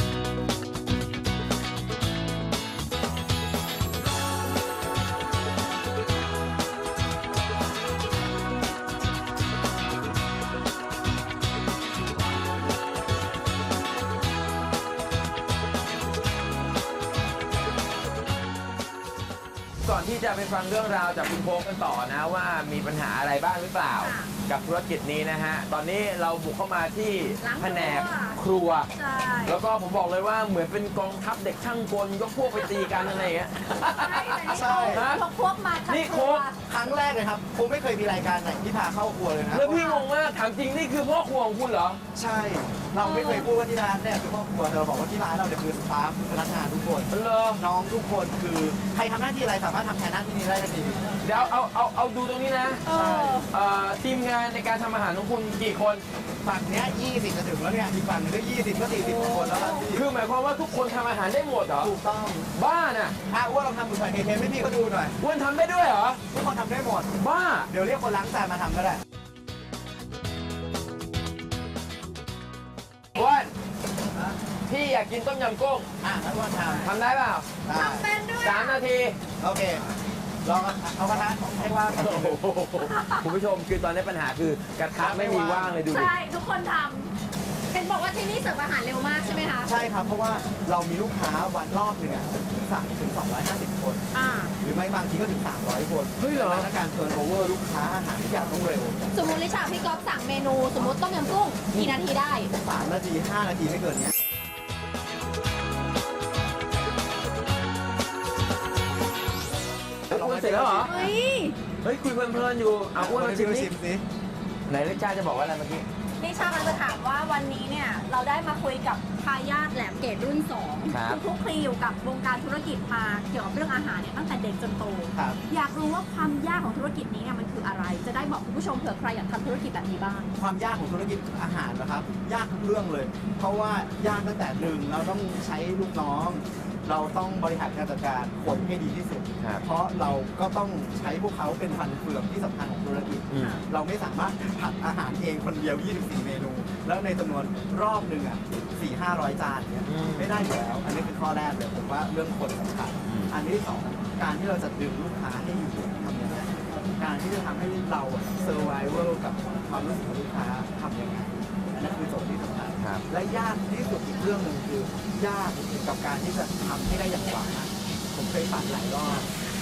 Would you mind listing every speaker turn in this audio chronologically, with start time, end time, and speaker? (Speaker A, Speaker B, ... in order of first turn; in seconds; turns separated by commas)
Speaker A: 19.8-28.9, Speaker B: 24.0-24.3, Speaker B: 27.4-28.4, Speaker B: 28.9-29.6, Speaker A: 29.4-35.3, Speaker B: 32.5-33.1, Speaker B: 33.9-36.6, Speaker C: 34.5-35.1, Speaker A: 35.9-36.5, Speaker C: 36.6-39.9, Speaker A: 39.5-42.0, Speaker B: 39.7-40.0, Speaker C: 42.1-51.1, Speaker B: 43.0-43.5, Speaker A: 47.1-47.6, Speaker A: 51.2-52.9, Speaker B: 52.9-53.5, Speaker C: 52.9-53.5, Speaker A: 53.5-56.0, Speaker C: 56.4-60.0, Speaker B: 59.0-59.9, Speaker A: 59.9-61.9, Speaker C: 61.8-62.5, Speaker A: 62.5-63.2, Speaker C: 63.3-65.2, Speaker A: 65.2-66.2, Speaker C: 66.3-67.2, Speaker A: 67.2-67.7, Speaker C: 67.7-69.0, Speaker A: 73.1-73.5, Speaker A: 74.7-75.9, Speaker C: 76.0-76.9, Speaker A: 76.7-77.6, Speaker C: 77.6-78.1, Speaker B: 77.7-78.8, Speaker A: 78.4-79.2, Speaker C: 79.4-79.8, Speaker C: 80.4-82.4, Speaker A: 82.0-86.1, Speaker B: 82.8-83.2, Speaker C: 85.0-85.8, Speaker B: 85.8-87.1, Speaker B: 87.7-89.7, Speaker C: 89.6-94.1, Speaker B: 94.1-94.5, Speaker C: 94.6-99.1, Speaker A: 96.2-96.7, Speaker B: 99.1-102.5, Speaker C: 102.6-104.1, Speaker C: 110.1-110.9, Speaker A: 110.1-111.0, Speaker B: 110.8-111.6, Speaker A: 111.8-113.8, Speaker C: 112.9-114.0, Speaker A: 114.7-115.8, Speaker B: 116.2-130.3, Speaker A: 120.8-121.2, Speaker C: 125.1-125.4, Speaker C: 130.3-169.3, Speaker A: 143.3-143.6, Speaker B: 143.3-143.6, Speaker A: 149.8-150.4, Speaker A: 153.1-153.3, Speaker A: 162.8-163.1